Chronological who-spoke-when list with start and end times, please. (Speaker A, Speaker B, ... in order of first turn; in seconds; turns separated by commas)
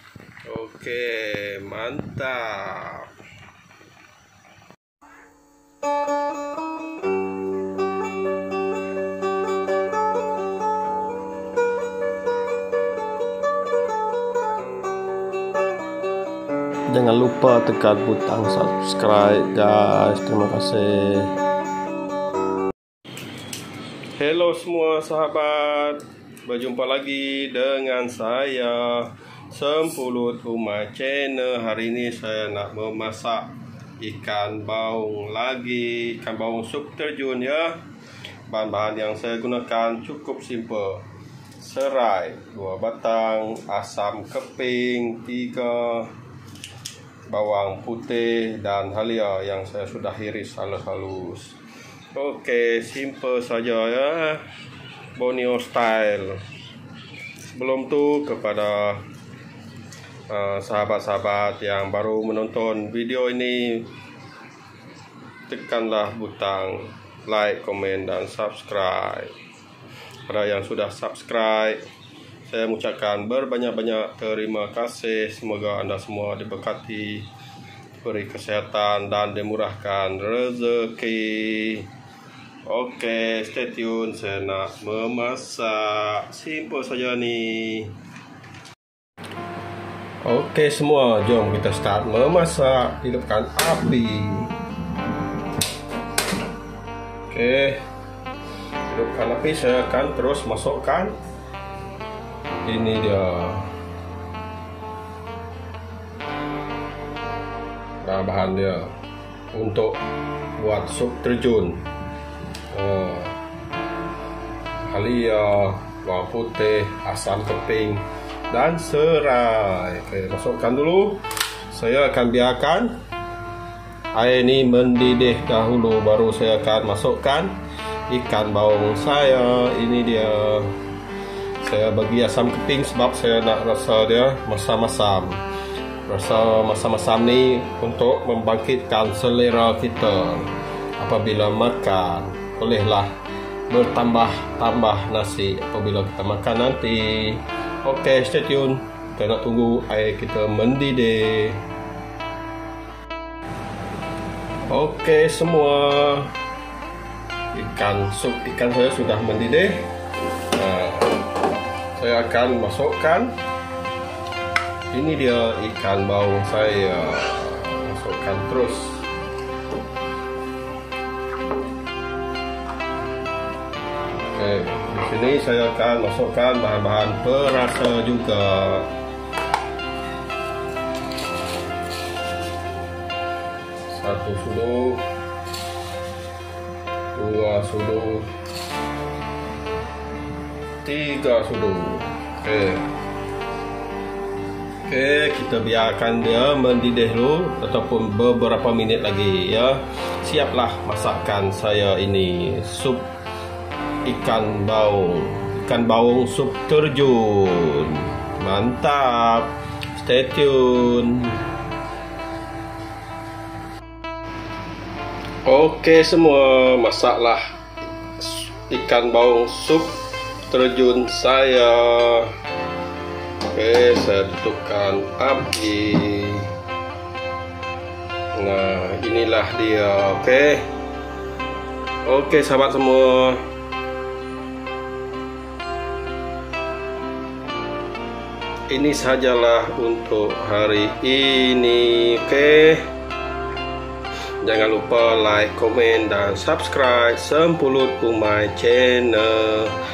Speaker A: 0.5-3.1, Speaker A: 16.9-21.3, Speaker A: 24.1-37.8, Speaker A: 38.5-41.1, Speaker A: 41.6-46.1, Speaker A: 47.3-51.6, Speaker A: 52.1-54.5, Speaker A: 55.2-56.4, Speaker A: 57.5-59.0, Speaker A: 60.3-63.9, Speaker A: 65.5-69.4, Speaker A: 70.3-71.8, Speaker A: 72.4-77.3, Speaker A: 78.0-81.9, Speaker A: 82.7-88.0, Speaker A: 90.2-94.5, Speaker A: 97.3-97.8, Speaker A: 98.9-101.2, Speaker A: 102.7-103.7, Speaker A: 108.0-108.9, Speaker A: 109.5-110.0, Speaker A: 110.6-111.8, Speaker A: 112.7-113.4, Speaker A: 114.9-123.0, Speaker A: 124.1-127.6, Speaker A: 128.1-130.8, Speaker A: 131.6-135.4, Speaker A: 136.1-143.1, Speaker A: 143.7-151.6, Speaker A: 154.7-156.3, Speaker A: 157.5-159.9, Speaker A: 160.4-161.2, Speaker A: 162.0-163.4, Speaker A: 164.9-169.1, Speaker A: 174.3-178.9, Speaker A: 183.9-185.1, Speaker A: 187.1-188.3, Speaker A: 190.8-192.9, Speaker A: 194.8-203.1, Speaker A: 204.1-211.4, Speaker A: 215.4-217.6, Speaker A: 218.2-219.9, Speaker A: 220.5-222.3, Speaker A: 223.5-226.5, Speaker A: 228.3-230.7, Speaker A: 232.1-233.4, Speaker A: 238.7-242.9, Speaker A: 244.4-249.8